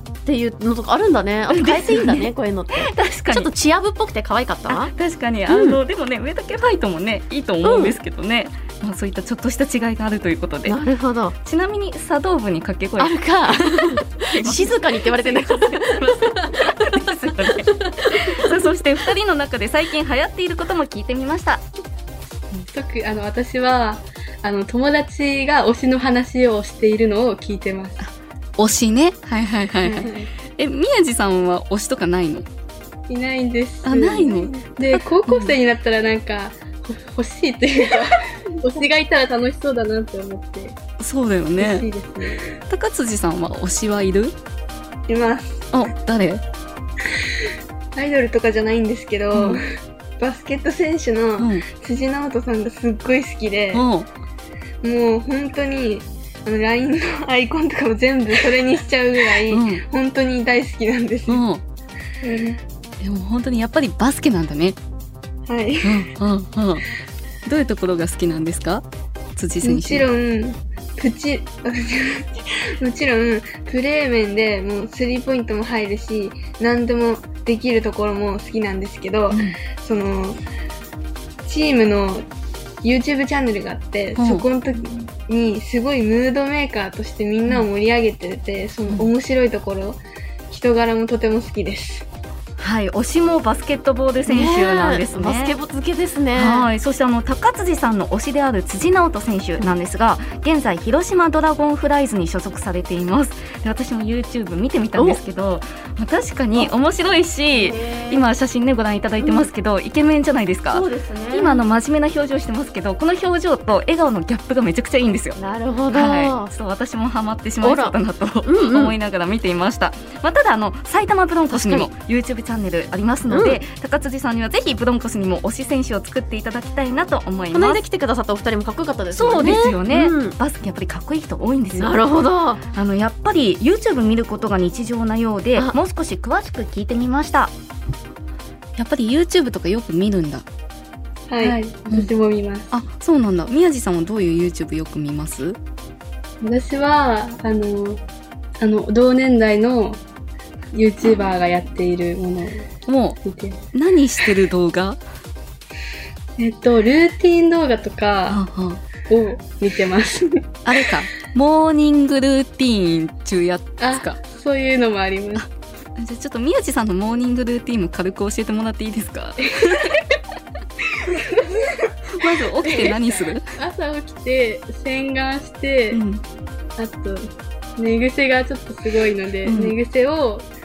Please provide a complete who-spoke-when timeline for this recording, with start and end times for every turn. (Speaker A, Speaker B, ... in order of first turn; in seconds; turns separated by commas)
Speaker A: 0.2-4.9, Speaker B: 1.5-3.5, Speaker B: 4.7-10.8, Speaker A: 5.5-5.8, Speaker A: 7.6-8.0, Speaker A: 10.7-11.3, Speaker B: 11.4-21.6, Speaker A: 13.0-19.1, Speaker C: 22.7-28.0, Speaker B: 28.0-32.5, Speaker C: 29.8-30.3, Speaker C: 33.1-40.8, Speaker B: 33.8-35.5, Speaker B: 41.0-41.9, Speaker C: 41.6-42.5, Speaker B: 42.7-44.3, Speaker C: 45.1-45.7, Speaker B: 45.7-46.4, Speaker C: 48.0-49.6, Speaker C: 50.2-53.9, Speaker B: 53.7-54.1, Speaker C: 54.8-61.4, Speaker B: 59.5-59.8, Speaker B: 61.3-61.6, Speaker C: 62.2-62.6, Speaker B: 63.0-64.8, Speaker C: 65.5-66.1, Speaker B: 65.8-66.8, Speaker B: 67.5-68.8, Speaker B: 69.4-70.0, Speaker C: 69.6-80.4, Speaker C: 81.5-82.2, Speaker C: 82.8-92.0, Speaker B: 84.2-84.5, Speaker B: 92.6-95.5, Speaker A: 94.2-96.7, Speaker B: 96.3-115.4, Speaker A: 104.9-105.2, Speaker A: 107.5-108.2, Speaker A: 109.2-109.5, Speaker A: 110.7-111.6, Speaker A: 115.3-116.5, Speaker B: 115.9-127.8, Speaker A: 117.6-119.0, Speaker A: 121.5-121.9, Speaker A: 123.2-123.6, Speaker A: 127.5-130.4, Speaker B: 129.1-137.5, Speaker A: 131.7-132.6, Speaker B: 138.8-140.4, Speaker C: 141.3-142.7, Speaker B: 141.4-142.1, Speaker B: 142.7-145.6, Speaker C: 146.4-148.0, Speaker C: 148.6-150.0, Speaker C: 150.7-152.7, Speaker B: 152.9-153.2, Speaker C: 153.2-154.4, Speaker B: 153.7-155.0, Speaker C: 156.4-158.4, Speaker B: 158.3-158.8, Speaker C: 159.1-160.6, Speaker B: 160.7-164.2, Speaker C: 163.8-165.4, Speaker B: 166.0-169.8, Speaker C: 169.4-169.7, Speaker C: 171.1-176.0, Speaker B: 172.2-173.4, Speaker B: 175.9-176.2, Speaker C: 176.8-180.5, Speaker B: 179.4-179.8